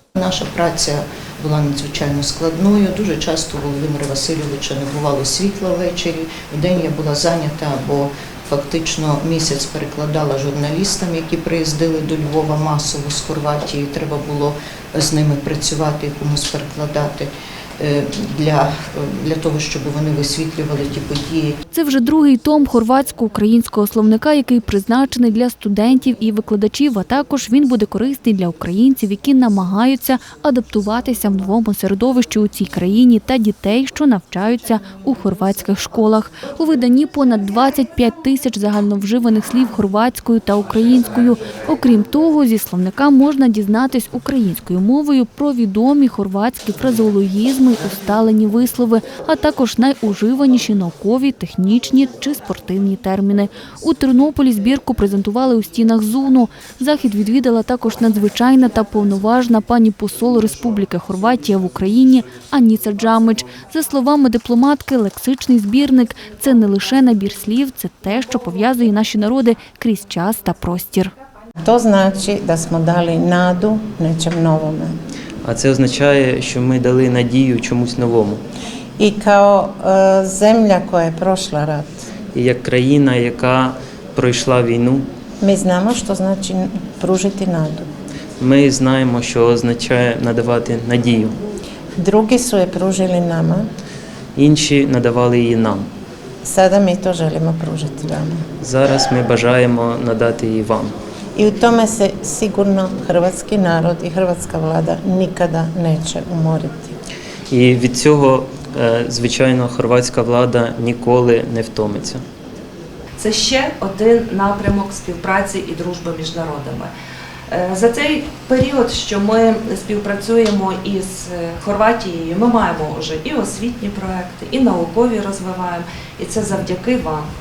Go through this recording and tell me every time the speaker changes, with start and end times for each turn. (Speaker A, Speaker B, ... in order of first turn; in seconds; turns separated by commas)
Speaker A: 0.1-21.6, Speaker B: 21.7-71.1, Speaker C: 71.6-75.0, Speaker D: 75.4-78.4, Speaker C: 79.0-82.0, Speaker D: 82.3-85.0, Speaker C: 85.4-87.9, Speaker D: 88.4-91.4, Speaker C: 92.0-93.7, Speaker D: 94.3-95.9, Speaker C: 96.4-98.4, Speaker D: 98.6-100.9, Speaker C: 101.3-106.9, Speaker D: 107.5-112.2, Speaker E: 113.2-116.9, Speaker E: 117.5-127.3